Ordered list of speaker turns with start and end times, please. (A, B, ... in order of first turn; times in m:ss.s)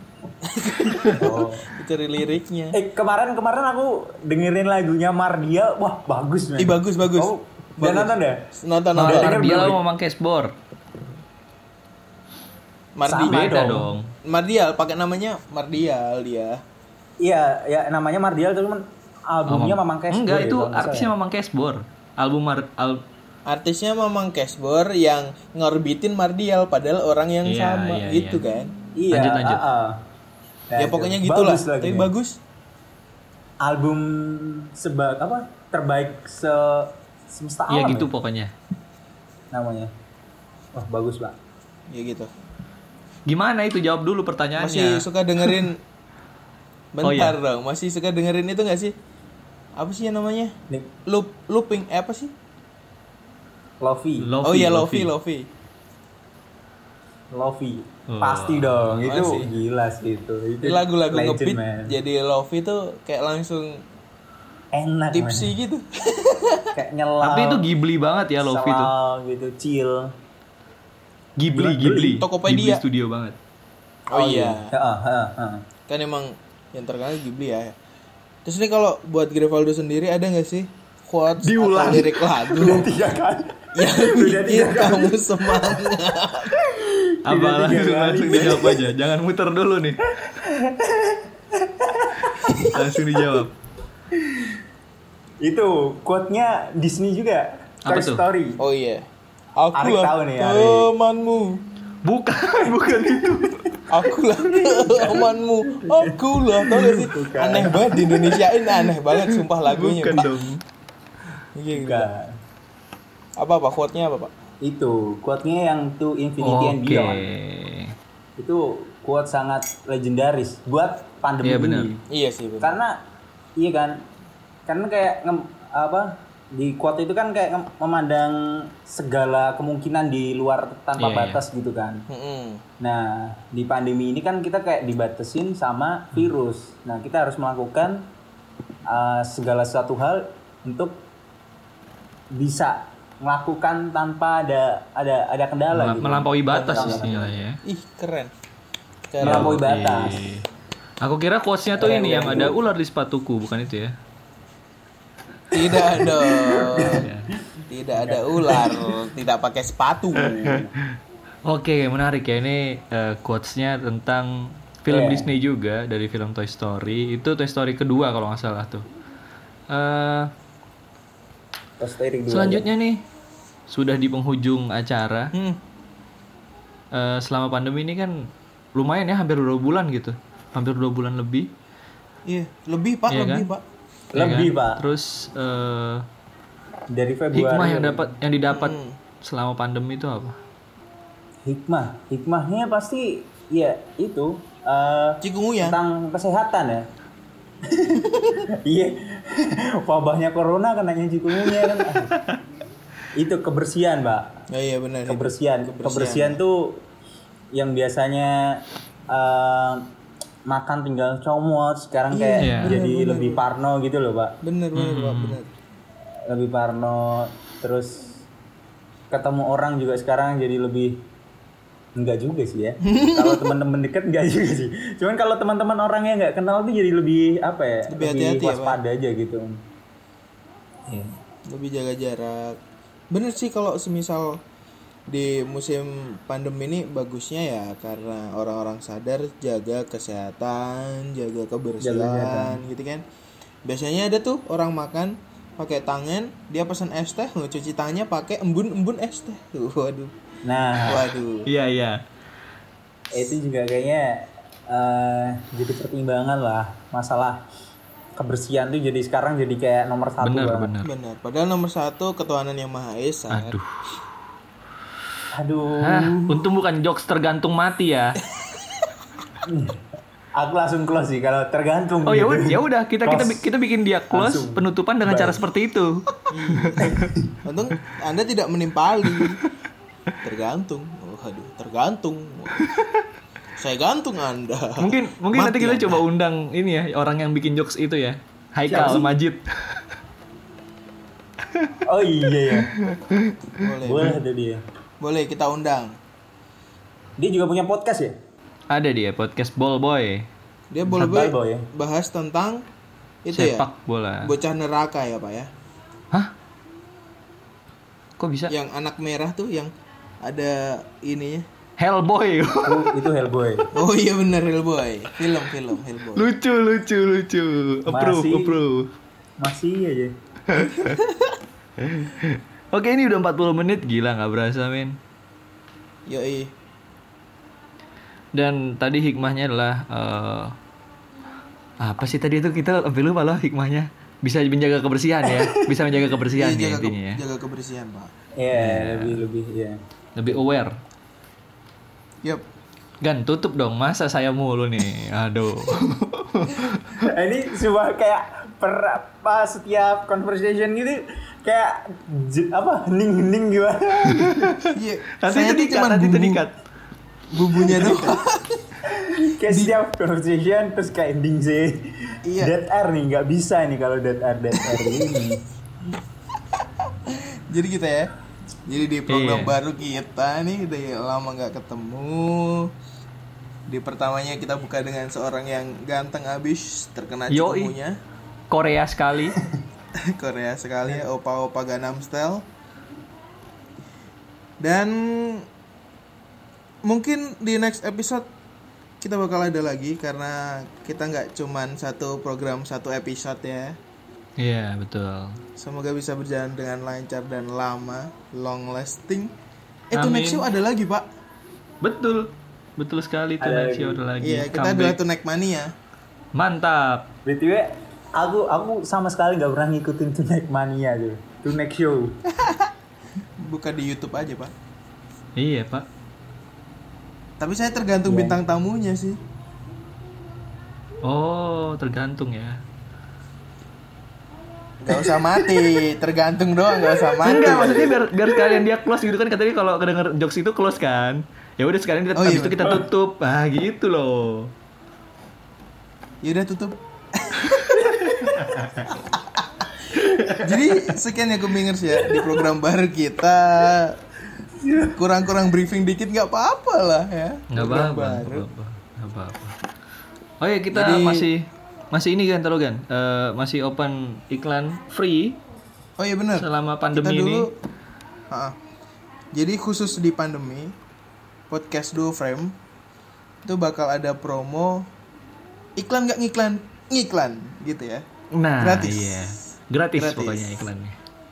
0:00.4-0:02.8 A
0:01.0-0:01.7 B
0:02.7-0:08.4 B
0:06.6-0:09.5 A
0:09.0-0:09.8 B
0:09.0-0:10.5 C
0:13.0-0:13.5 A
0:13.1-0:13.9 B
0:13.2-0:14.1 C
0:14.2-0:16.6 A
0:17.2-0:21.1 B
0:19.5-0:23.0 C
0:23.5-0:28.7 A
0:27.4-0:28.4 C
0:29.0-0:30.0 B
0:29.1-0:29.6 C
0:30.7-0:32.1 B
0:30.8-0:32.4 A
0:33.6-0:38.1 B
0:37.7-0:38.5 C
0:39.5-0:39.9 B
0:40.8-0:41.4 B
0:41.9-0:42.3 A
0:43.3-0:45.6 C
0:44.6-0:45.8 A
0:46.9-0:49.0 A
0:47.0-0:47.4 C
0:49.8-0:52.3 A
0:53.8-0:54.3 B
0:54.2-0:55.1 C
0:54.4-0:55.5 A
0:57.3-1:01.9 B
0:58.1-0:59.4 C
0:59.1-0:59.5 A
1:00.6-1:03.8 A
1:04.7-1:05.5 B
1:05.1-1:06.8 A
1:06.8-1:07.7 B
1:07.2-1:08.9 C
1:08.4-1:10.2 B
1:11.4-1:13.4 C
1:11.5-1:12.2 B
1:12.1-1:12.8 A
1:14.1-1:14.7 A
1:14.1-1:15.6 B
1:15.9-1:17.8 A
1:18.4-1:22.9 A
1:21.4-1:22.3 C
1:21.9-1:25.9 B
1:23.7-1:26.6 A
1:26.5-1:28.9 B
1:27.2-1:30.2 C
1:30.2-1:33.2 B
1:32.6-1:33.5 C
1:34.1-1:34.6 B
1:35.4-1:38.6 B
1:37.8-1:38.2 C
1:38.6-1:41.6 A
1:39.7-1:40.9 B
1:42.0-1:43.8 C
1:43.9-1:50.3 A
1:44.4-1:48.4 B
1:49.1-1:50.6 C
1:51.6-1:52.1 A
1:51.7-1:52.4 B
1:53.4-1:54.3 A
1:54.6-1:57.3 B
1:56.4-1:58.0 C
1:58.4-2:02.0 B
2:01.4-2:01.9 C
2:02.1-2:02.8 A
2:02.6-2:03.0 B
2:03.6-2:04.0 B
2:04.7-2:12.1 B
2:11.0-2:11.4 C
2:12.1-2:12.6 A
2:12.8-2:18.1 B
2:18.9-2:21.0 B
2:22.3-2:27.3 B
2:25.7-2:27.6 C
2:26.5-2:28.3 A
2:29.1-2:29.6 A
2:29.2-2:30.2 B
2:29.2-2:30.5 C
2:31.0-2:34.0 C
2:31.8-2:32.6 B
2:31.8-2:32.5 A
2:35.5-2:37.1 A
2:36.2-2:37.1 B
2:36.7-2:37.3 C
2:37.7-2:40.7 A
2:38.0-2:38.7 B
2:41.5-2:48.9 C
2:44.9-2:45.3 B
2:49.7-2:50.3 C
2:51.8-2:52.7 B
2:52.3-2:53.0 C
2:53.7-2:55.3 C
2:55.3-2:55.6 A
2:56.9-3:01.5 C
3:02.3-3:03.6 A
3:03.1-3:03.5 C
3:04.1-3:04.8 B
3:04.2-3:06.1 C
3:06.9-3:08.1 B
3:07.3-3:10.4 C
3:08.5-3:09.0 A
3:11.4-3:16.9 B
3:15.2-3:15.8 A
3:17.6-3:22.2 B
3:21.4-3:22.4 C
3:23.2-3:24.4 B
3:24.5-3:26.4 A
3:25.1-3:26.9 B
3:27.5-3:29.9 B
3:30.5-3:34.4 B
3:32.1-3:33.4 A
3:32.4-3:32.8 C
3:34.4-3:35.5 A
3:34.8-3:35.4 C
3:36.3-3:38.2 B
3:39.1-3:41.0 B
3:42.0-3:49.6 B
3:42.8-3:43.5 A
3:47.9-3:48.8 A
3:50.9-3:51.2 B
3:51.5-3:52.6 A
3:53.1-3:54.4 A
3:55.1-4:03.0 A
4:01.8-4:02.6 B
4:03.6-4:10.1 A
4:10.4-4:11.1 B
4:10.8-4:11.5 A
4:11.5-4:12.0 C
4:13.1-4:17.4 B
4:18.2-4:20.7 B
4:20.2-4:20.9 C
4:20.8-4:23.6 A
4:23.3-4:23.8 C
4:25.3-4:26.5 B
4:25.8-4:28.2 C
4:29.4-4:29.8 B
4:30.4-4:33.5 B
4:32.0-4:37.1 C
4:34.1-4:35.4 B
4:36.3-4:39.4 A
4:36.8-4:37.4 B
4:39.1-4:39.4 C
4:40.2-4:42.7 A
4:42.6-4:43.0 C
4:43.6-4:46.0 A
4:44.8-4:49.8 C
4:48.7-4:49.1 B
4:48.7-4:49.1 A
4:51.8-4:52.7 B
4:52.5-4:53.6 C
4:53.6-4:54.2 A
4:53.8-4:54.6 B
4:55.0-4:56.0 A
4:57.2-4:58.2 B
4:58.7-5:00.3 C
5:00.7-5:02.7 A
5:00.9-5:01.7 B
5:03.2-5:03.7 A
5:03.3-5:04.3 C
5:04.2-5:05.5 A
5:08.2-5:08.5 C
5:08.5-5:11.5 A
5:11.8-5:12.9 C
5:12.6-5:13.7 B
5:13.7-5:16.3 A
5:16.2-5:18.9 C
5:17.9-5:18.6 B
5:19.4-5:20.1 B
5:20.5-5:21.0 C
5:20.8-5:21.4 A
5:21.8-5:25.0 C
5:26.1-5:26.5 A
5:28.4-5:30.6 C
5:31.8-5:37.2 C
5:35.3-5:35.6 B
5:36.2-5:38.1 A
5:38.4-5:39.8 B
5:38.5-5:39.2 C
5:40.2-5:40.8 C
5:43.0-5:47.1 C
5:47.0-5:54.5 B
5:54.0-5:56.6 C
5:54.7-5:56.4 A
5:57.3-5:58.7 A
5:58.9-6:05.4 B
5:59.5-5:59.8 A
6:02.2-6:02.6 A
6:06.8-6:08.1 A
6:08.6-6:12.7 A
6:09.1-6:09.6 C
6:13.7-6:18.0 A
6:17.3-6:17.7 C
6:18.5-6:19.4 C
6:20.0-6:22.5 A
6:24.6-6:25.5 A
6:26.8-6:28.3 A
6:29.0-6:33.8 A
6:34.4-6:35.4 C
6:35.6-6:39.4 A
6:39.9-6:41.1 A
6:39.9-6:40.5 C
6:41.8-6:45.0 C
6:43.4-6:44.0 B
6:44.2-6:45.7 A
6:46.3-6:47.1 C
6:47.3-6:52.2 B
6:52.3-6:52.7 A
6:53.4-6:54.5 A
6:55.4-6:55.9 C
6:57.4-6:59.2 A
6:58.0-6:58.4 B
7:01.0-7:02.6 C
7:04.8-7:08.0 A
7:07.2-7:14.5 C
7:12.1-7:12.9 A
7:16.2-7:18.0 A
7:17.9-7:18.7 C
7:19.0-7:19.4 A
7:20.0-7:20.4 C
7:20.1-7:20.4 B
7:20.4-7:24.0 A
7:24.7-7:25.0 B
7:24.8-7:28.5 A
7:27.5-7:29.6 C
7:30.4-7:35.4 C
7:30.7-7:31.3 A
7:36.0-7:37.5 A
7:36.4-7:37.5 C
7:38.3-7:38.6 A
7:39.3-7:40.8 A
7:41.5-7:42.6 A
7:43.4-7:44.9 A
7:45.8-7:48.1 A
7:48.3-7:51.0 C
7:48.6-7:49.3 A
7:50.0-7:50.7 A